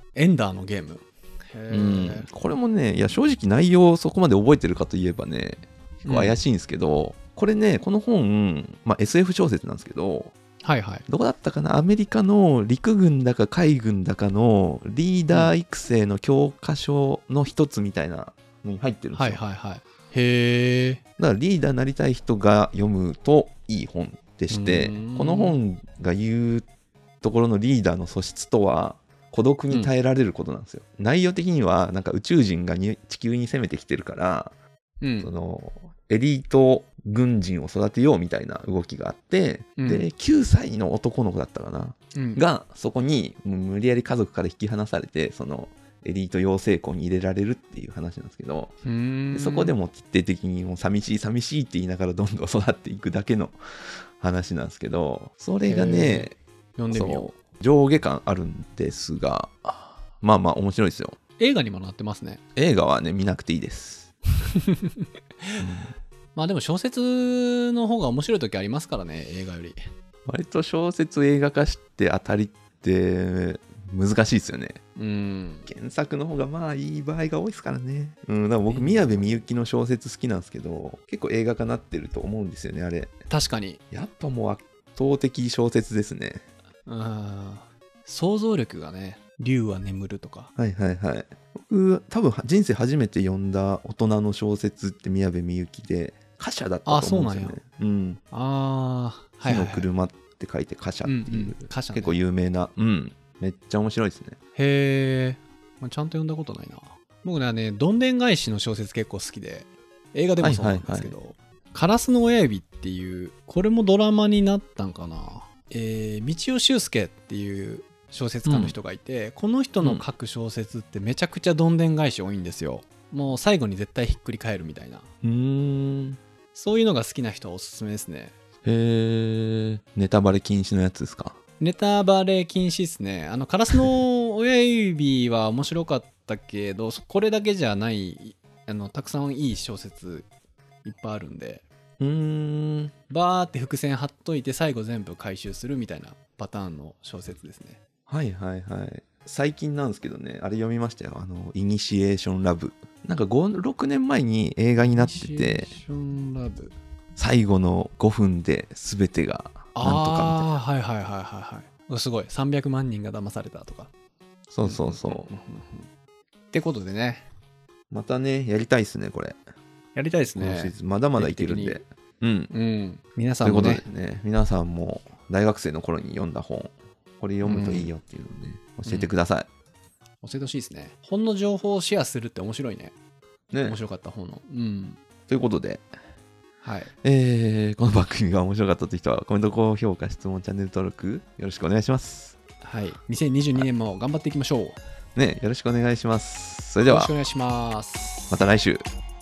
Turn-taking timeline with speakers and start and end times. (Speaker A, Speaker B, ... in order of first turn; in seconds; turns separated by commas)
Speaker A: 0.2-2.3, Speaker B: 1.7-10.3, Speaker A: 6.1-6.4, Speaker A: 10.6-11.1, Speaker B: 11.1-19.4, Speaker A: 19.1-21.0, Speaker B: 21.2-26.7, Speaker A: 24.5-25.6, Speaker B: 27.2-34.5, Speaker A: 35.0-35.3, Speaker B: 35.2-48.7, Speaker A: 39.8-40.1, Speaker A: 42.1-42.4, Speaker A: 48.9-49.7, Speaker B: 49.3-53.6, Speaker B: 54.1-56.4, Speaker A: 55.6-57.3, Speaker B: 56.9-61.2, Speaker A: 61.4-62.4, Speaker B: 62.6-64.1, Speaker B: 65.6-65.9, Speaker A: 66.3-69.8, Speaker B: 70.3-74.8, Speaker A: 75.0-75.7, Speaker B: 75.7-83.1, Speaker A: 78.7-79.4, Speaker A: 83.3-83.8, Speaker B: 83.9-86.4, Speaker A: 86.9-90.5, Speaker B: 90.6-98.2, Speaker A: 96.9-97.6, Speaker A: 98.3-99.9, Speaker B: 99.4-104.4, Speaker A: 101.0-102.2, Speaker A: 104.6-125.1, Speaker B: 110.4-111.2, Speaker B: 118.5-118.8, Speaker B: 125.2-126.2, Speaker A: 126.5-128.3, Speaker B: 128.7-131.4, Speaker A: 131.6-140.3, Speaker A: 140.8-141.6, Speaker B: 142.0-142.9, Speaker A: 143.1-147.8, Speaker B: 148.1-155.8, Speaker A: 154.8-156.7, Speaker B: 157.2-160.5, Speaker A: 159.8-163.9, Speaker B: 164.5-165.3, Speaker A: 164.6-165.9, Speaker A: 166.5-167.2, Speaker B: 167.9-169.4, Speaker A: 169.9-171.8, Speaker B: 170.4-172.5, Speaker A: 172.5-173.8, Speaker B: 173.4-179.5, Speaker A: 177.4-177.9, Speaker A: 178.9-179.1, Speaker A: 180.2-182.9, Speaker B: 183.5-183.8, Speaker A: 183.6-185.0, Speaker B: 185.3-185.9, Speaker A: 186.6-186.9, Speaker B: 187.0-192.4, Speaker A: 192.6-194.8, Speaker B: 195.2-197.1, Speaker A: 196.9-198.4, Speaker B: 198.3-198.8